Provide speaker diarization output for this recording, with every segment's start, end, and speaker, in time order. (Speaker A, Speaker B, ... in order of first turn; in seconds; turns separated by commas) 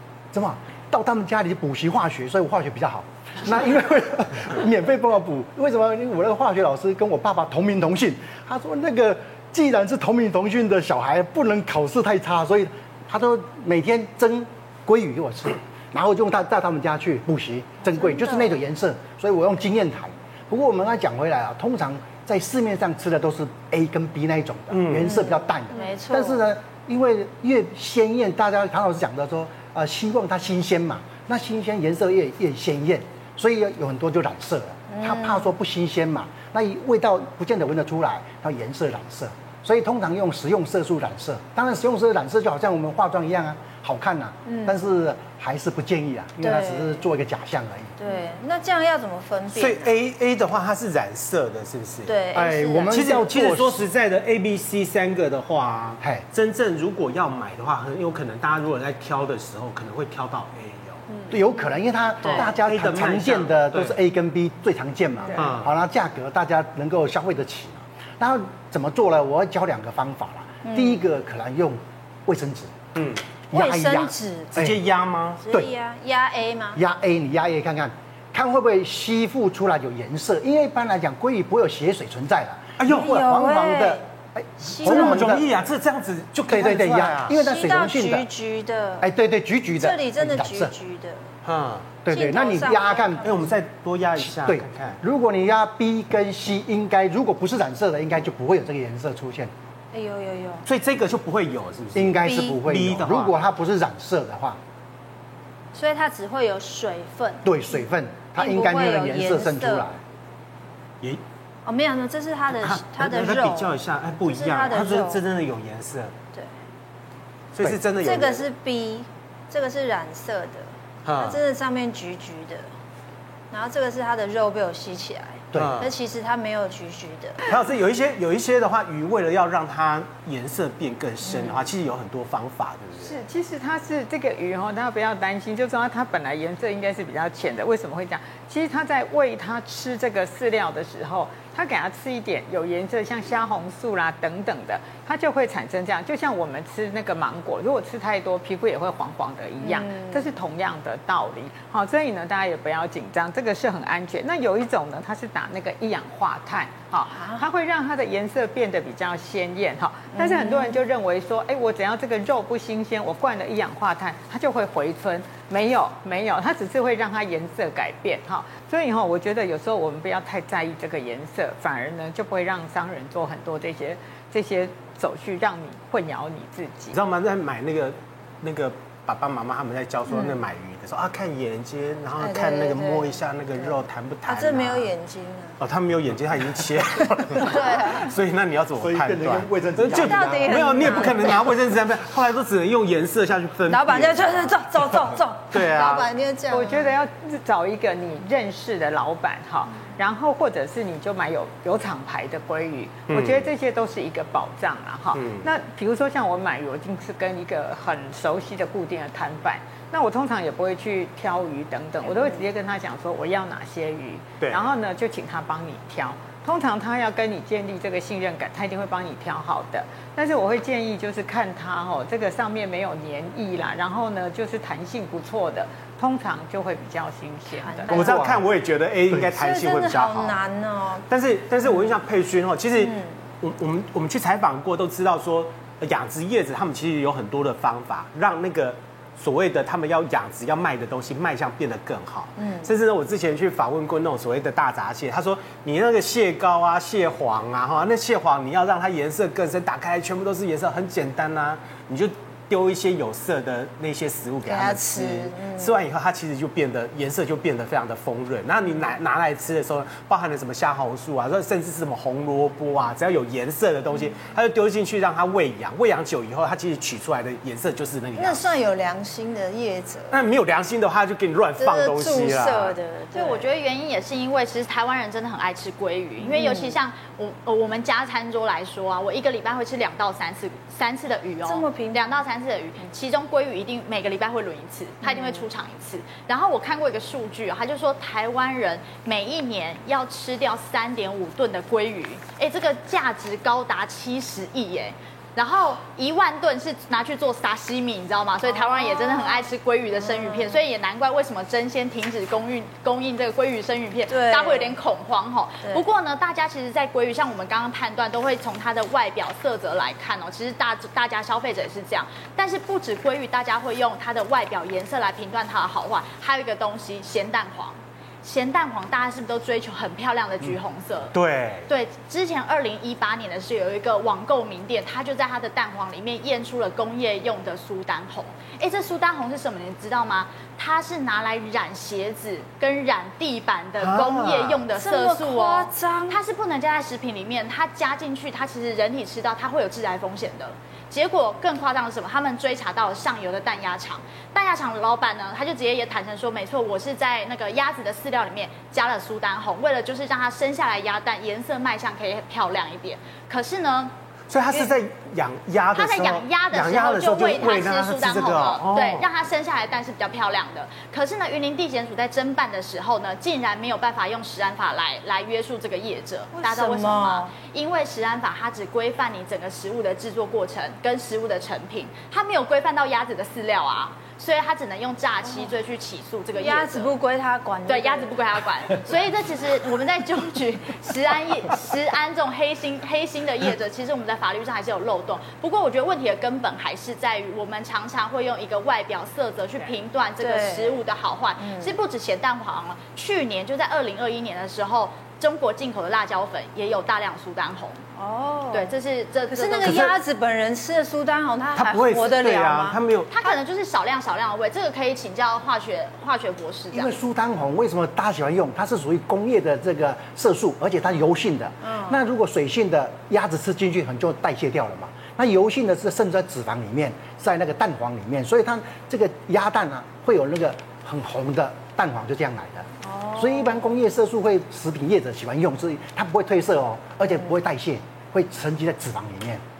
Speaker A: 0.3-47.9, Speaker B: 17.9-18.6, Speaker C: 24.7-25.2, Speaker B: 25.0-26.4, Speaker B: 34.9-35.5, Speaker B: 44.5-44.8, Speaker B: 46.4-47.1, Speaker B: 48.0-49.9, Speaker C: 49.5-61.1, Speaker B: 52.1-53.1, Speaker A: 52.3-53.9, Speaker A: 61.3-72.9, Speaker B: 62.2-62.5, Speaker C: 62.3-64.0, Speaker C: 65.4-65.7, Speaker B: 70.7-71.0, Speaker C: 73.0-73.2, Speaker A: 73.5-74.8, Speaker B: 73.5-74.5, Speaker C: 74.5-75.4, Speaker B: 75.4-76.8, Speaker A: 76.8-85.5, Speaker C: 82.8-83.1, Speaker B: 82.9-84.0, Speaker B: 84.6-85.4, Speaker C: 84.8-87.3, Speaker A: 86.5-88.3, Speaker B: 87.3-89.1, Speaker A: 89.0-90.7, Speaker B: 89.8-91.2, Speaker C: 91.4-92.0, Speaker A: 92.0-93.4, Speaker B: 92.1-93.5, Speaker C: 93.2-95.0, Speaker A: 94.2-99.5, Speaker B: 99.9-100.6, Speaker C: 100.7-103.3, Speaker A: 102.0-104.6, Speaker B: 102.2-102.6, Speaker B: 105.7-107.8, Speaker A: 107.4-110.0, Speaker B: 108.3-109.9, Speaker B: 111.7-115.2, Speaker C: 112.6-116.1, Speaker C: 117.5-118.5, Speaker B: 118.0-122.7, Speaker C: 121.0-121.4, Speaker B: 123.5-127.5, Speaker A: 125.5-125.8, Speaker C: 125.6-125.9, Speaker C: 127.4-133.2, Speaker B: 131.3-131.6, Speaker D: 133.0-177.0, Speaker B: 149.6-150.3, Speaker B: 157.1-157.4, Speaker B: 160.2-160.8, Speaker C: 176.9-184.9, Speaker B: 180.1-180.4, Speaker B: 182.2-183.7, Speaker B: 184.3-185.6, Speaker C: 185.6-194.5, Speaker B: 187.3-188.1, Speaker A: 188.8-191.0, Speaker B: 189.9-191.5, Speaker B: 193.7-196.9, Speaker C: 195.5-196.1, Speaker D: 196.5-227.9, Speaker C: 203.1-203.5, Speaker C: 205.1-205.5, Speaker C: 214.4-214.7, Speaker B: 227.5-228.2, Speaker C: 227.9-230.4, Speaker A: 227.9-228.5, Speaker B: 229.3-231.1, Speaker C: 231.1-268.4, Speaker B: 232.8-233.2, Speaker B: 242.4-242.7, Speaker B: 254.4-255.8, Speaker B: 268.2-270.2, Speaker C: 270.1-272.8, Speaker B: 271.6-273.5, Speaker E: 273.1-321.1, Speaker B: 276.2-276.8, Speaker B: 281.4-282.2, Speaker B: 285.0-285.5, Speaker B: 298.5-300.6, Speaker B: 304.1-304.8, Speaker C: 321.1-321.7, Speaker E: 321.7-353.9, Speaker C: 333.8-334.6, Speaker B: 334.8-336.2, Speaker C: 354.3-359.1, Speaker E: 355.7-376.9, Speaker B: 366.3-367.3, Speaker B: 376.4-378.2, Speaker E: 377.7-397.8, Speaker B: 390.2-390.8, Speaker B: 391.4-391.7, Speaker B: 398.0-398.7, Speaker E: 398.5-400.0, Speaker B: 399.3-403.3, Speaker C: 399.6-399.9, Speaker C: 401.6-403.1, Speaker E: 403.1-406.9, Speaker A: 406.7-429.4, Speaker B: 411.6-412.0, Speaker B: 422.8-423.7